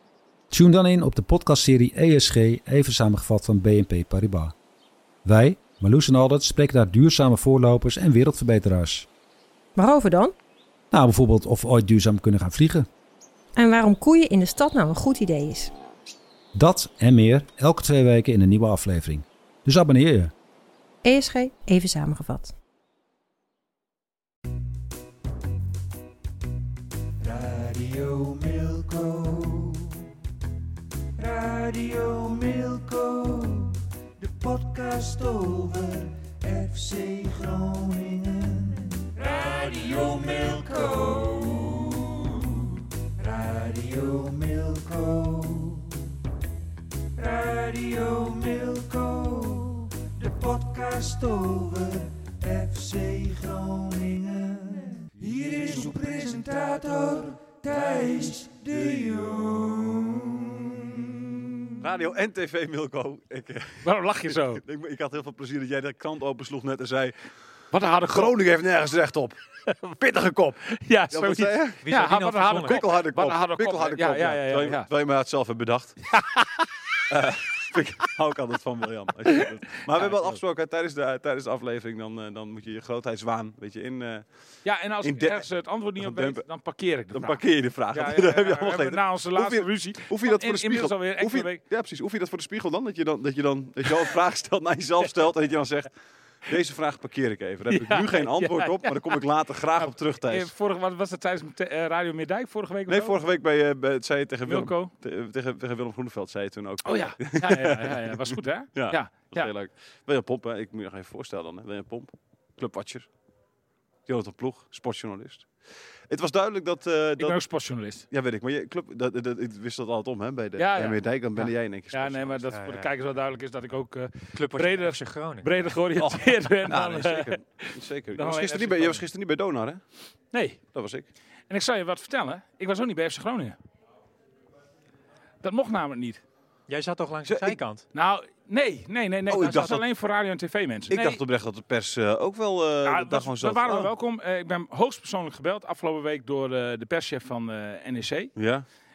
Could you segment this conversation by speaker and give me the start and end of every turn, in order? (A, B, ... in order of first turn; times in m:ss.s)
0:00.5-0:04.5 A
0:05.2-0:09.1 A
0:09.8-0:10.3 B
0:10.9-0:12.9 A
0:13.6-0:15.7 B
0:16.5-0:20.3 A
0:21.0-0:22.5 B
0:27.2-0:30.0 C
0:31.2-0:46.0 C
0:47.2-1:01.8 C
1:01.8-1:07.1 D
1:03.8-1:04.6 E
1:07.7-1:08.3 E
1:08.0-1:11.8 D
1:10.7-1:14.9 E
1:11.8-1:12.8 F
1:12.6-1:16.1 D
1:16.0-1:17.0 E
1:17.1-1:26.4 D
1:19.3-1:20.2 E
1:24.6-1:31.6 E
1:27.1-1:40.5 D
1:37.7-1:39.2 E
1:39.8-1:43.2 E
1:42.9-1:53.1 D
1:44.5-1:44.9 E
1:46.8-1:49.5 E
1:54.0-1:57.4 D
1:57.2-1:58.0 E
1:58.1-2:02.5 D
2:00.6-2:01.0 E
2:01.9-2:09.0 E
2:02.5-2:02.9 F
2:04.3-2:05.7 F
2:06.0-2:09.8 D
2:10.3-2:10.6 E
2:10.7-2:11.1 D
2:11.5-2:13.6 E
2:15.4-2:16.2 E
2:16.7-2:17.8 F
2:17.3-2:17.6 D
2:17.9-2:21.2 E
2:19.3-2:19.8 D
2:20.9-2:23.9 D
2:22.8-2:28.3 E
2:28.4-2:28.6 D